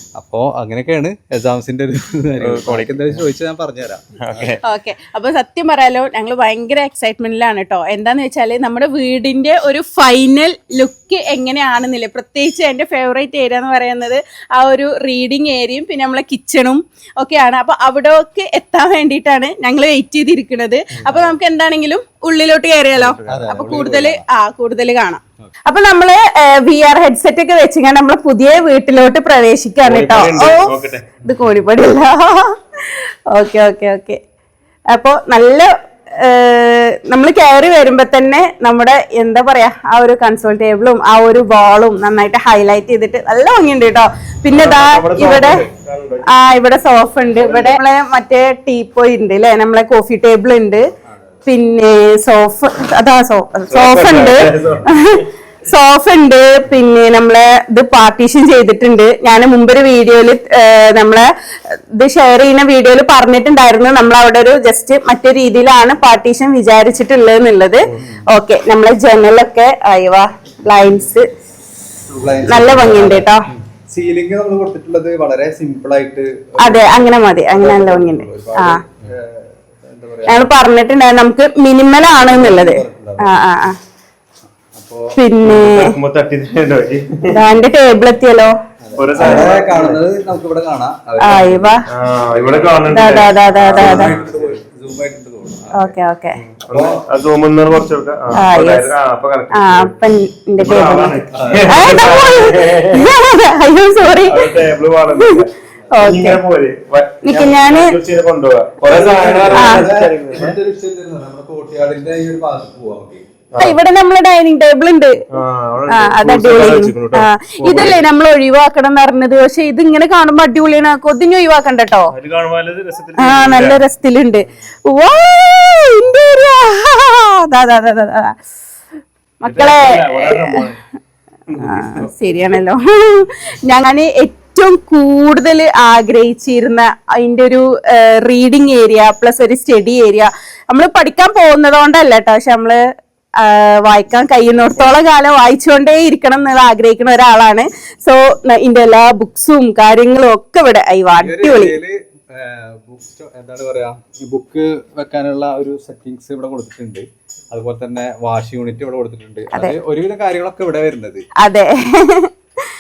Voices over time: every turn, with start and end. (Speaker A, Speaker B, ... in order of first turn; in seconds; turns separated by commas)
Speaker A: 0.2-4.6, Speaker B: 2.4-3.3, Speaker B: 4.2-4.6, Speaker C: 4.6-34.2, Speaker A: 21.0-21.3, Speaker B: 22.9-23.5, Speaker A: 23.3-24.2, Speaker B: 29.8-31.1, Speaker A: 31.3-31.6, Speaker C: 34.9-45.6, Speaker B: 44.5-46.4, Speaker C: 46.3-50.9, Speaker B: 47.3-47.8, Speaker A: 51.1-51.3, Speaker C: 51.5-61.3, Speaker B: 53.7-55.2, Speaker A: 54.5-54.8, Speaker C: 62.0-71.3, Speaker B: 67.9-68.2, Speaker B: 72.1-72.5, Speaker A: 72.2-80.5, Speaker C: 72.5-73.4, Speaker C: 76.6-78.8, Speaker C: 80.3-83.8, Speaker A: 82.1-83.3, Speaker A: 84.7-85.2, Speaker C: 85.2-86.0, Speaker B: 85.5-87.3, Speaker C: 87.3-88.5, Speaker A: 88.8-91.8, Speaker B: 89.0-90.0, Speaker C: 89.2-89.5, Speaker C: 91.2-91.8, Speaker B: 91.9-94.6, Speaker A: 92.3-96.0, Speaker C: 92.9-94.1, Speaker C: 95.8-96.4, Speaker B: 96.4-99.9, Speaker A: 96.7-97.0, Speaker C: 98.3-98.9, Speaker C: 99.5-101.2, Speaker B: 100.6-103.1, Speaker A: 101.3-102.0, Speaker C: 101.7-104.5, Speaker B: 104.2-110.6, Speaker C: 105.1-106.4, Speaker C: 107.2-108.0, Speaker A: 108.9-113.2, Speaker C: 109.5-109.9, Speaker B: 113.5-113.8, Speaker C: 113.6-115.2, Speaker B: 115.3-118.0, Speaker C: 115.9-122.1, Speaker B: 122.1-123.8, Speaker C: 123.2-128.4, Speaker C: 129.4-130.6, Speaker B: 129.4-130.8, Speaker B: 131.5-132.1, Speaker C: 131.6-142.8, Speaker C: 143.4-151.8, Speaker A: 151.2-161.2, Speaker C: 161.4-162.3